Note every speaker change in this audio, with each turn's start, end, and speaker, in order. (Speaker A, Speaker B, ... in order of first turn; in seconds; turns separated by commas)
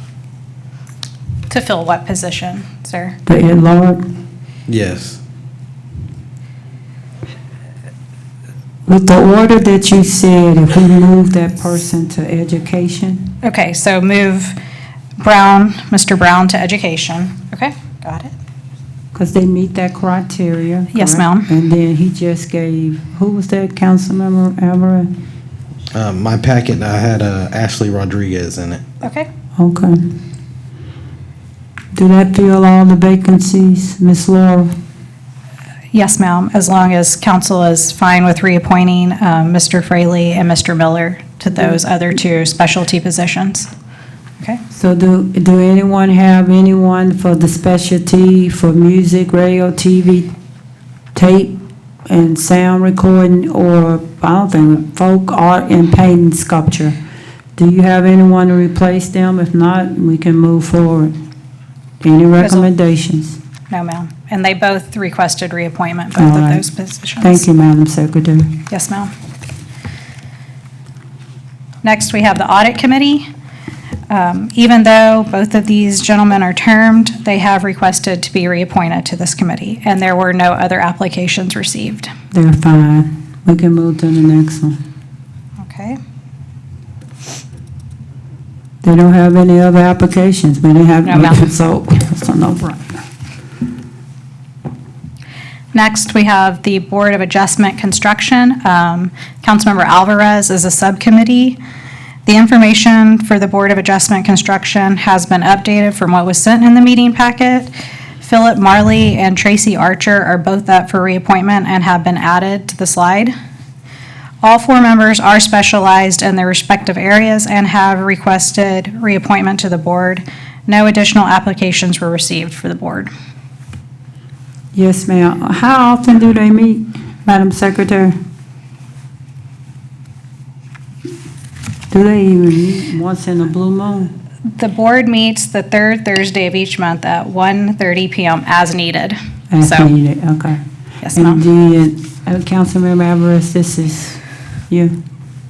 Speaker A: 1.5-3.1, Speaker B: 3.3-4.0, Speaker C: 4.7-5.2, Speaker B: 8.9-13.3, Speaker A: 13.4-14.6, Speaker A: 15.2-18.3, Speaker B: 19.1-25.1, Speaker A: 20.9-21.5, Speaker C: 25.9-28.9, Speaker A: 29.0-29.3, Speaker B: 29.6-30.0, Speaker B: 31.9-34.7, Speaker A: 35.9-43.7, Speaker B: 44.7-50.3, Speaker B: 51.1-51.6, Speaker B: 52.1-57.0, Speaker B: 57.6-61.1, Speaker B: 62.0-63.4, Speaker A: 62.4-62.7, Speaker A: 63.7-67.5, Speaker B: 66.2-66.6, Speaker B: 67.2-68.5, Speaker A: 68.7-69.1, Speaker A: 71.8-73.3, Speaker A: 74.1-82.1, Speaker B: 82.3-84.8, Speaker A: 85.6-86.0, Speaker B: 88.8-93.0, Speaker A: 91.1-91.4, Speaker A: 95.7-101.6, Speaker A: 102.3-113.3, Speaker A: 114.4-123.1, Speaker B: 124.7-128.2, Speaker B: 131.9-134.1, Speaker A: 134.5-139.9, Speaker B: 139.5-140.6, Speaker A: 141.0-141.4, Speaker B: 141.1-144.9